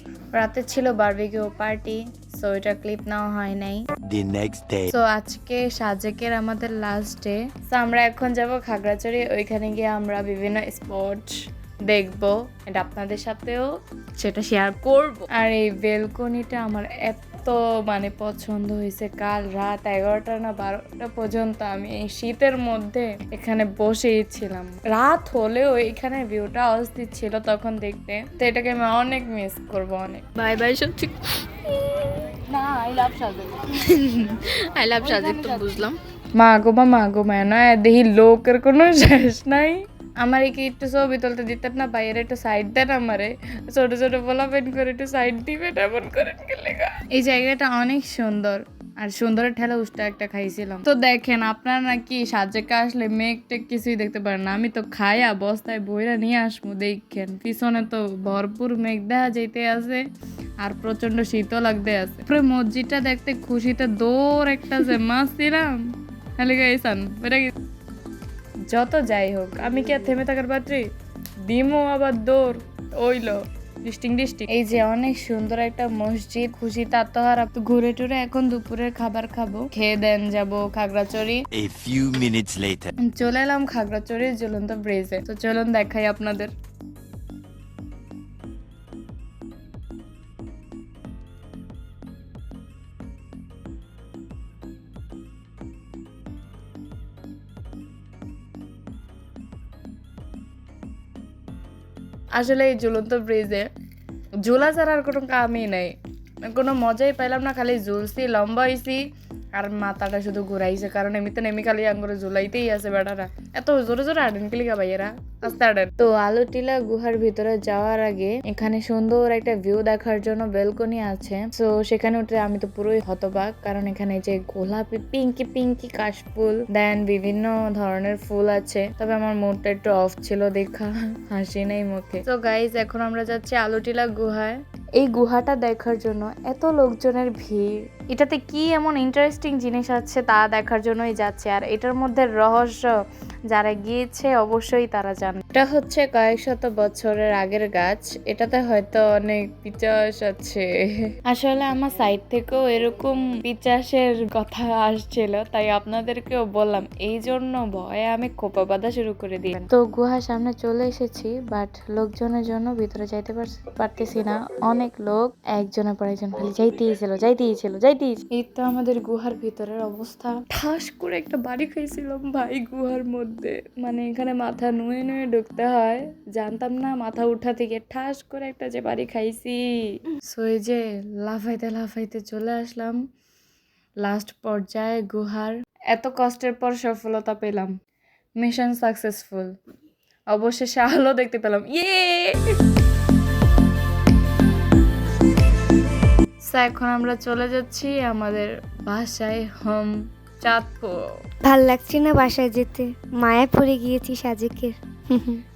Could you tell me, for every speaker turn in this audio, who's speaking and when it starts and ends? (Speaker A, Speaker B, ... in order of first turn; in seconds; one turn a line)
Speaker A: 0.3-3.9
Speaker B: 4.0-4.9
Speaker A: 4.9-11.3
Speaker A: 11.9-13.7
Speaker A: 14.2-30.3
Speaker C: 30.4-31.1
Speaker A: 32.5-34.1
Speaker C: 34.8-35.9
Speaker A: 35.0-35.9
Speaker A: 36.4-60.0
Speaker A: 60.6-65.8
Speaker A: 66.4-67.5
Speaker A: 68.7-70.8
Speaker A: 71.5-81.4
Speaker B: 81.5-82.9
Speaker A: 83.0-86.5
Speaker A: 102.3-103.7
Speaker A: 104.4-106.0
Speaker A: 106.5-109.0
Speaker A: 109.5-142.9
Speaker A: 143.5-150.7
Speaker A: 151.2-183.0
Speaker A: 184.0-187.7
Speaker A: 188.4-189.5
Speaker A: 190.3-192.4
Speaker A: 196.5-201.0
Speaker D: 201.4-205.4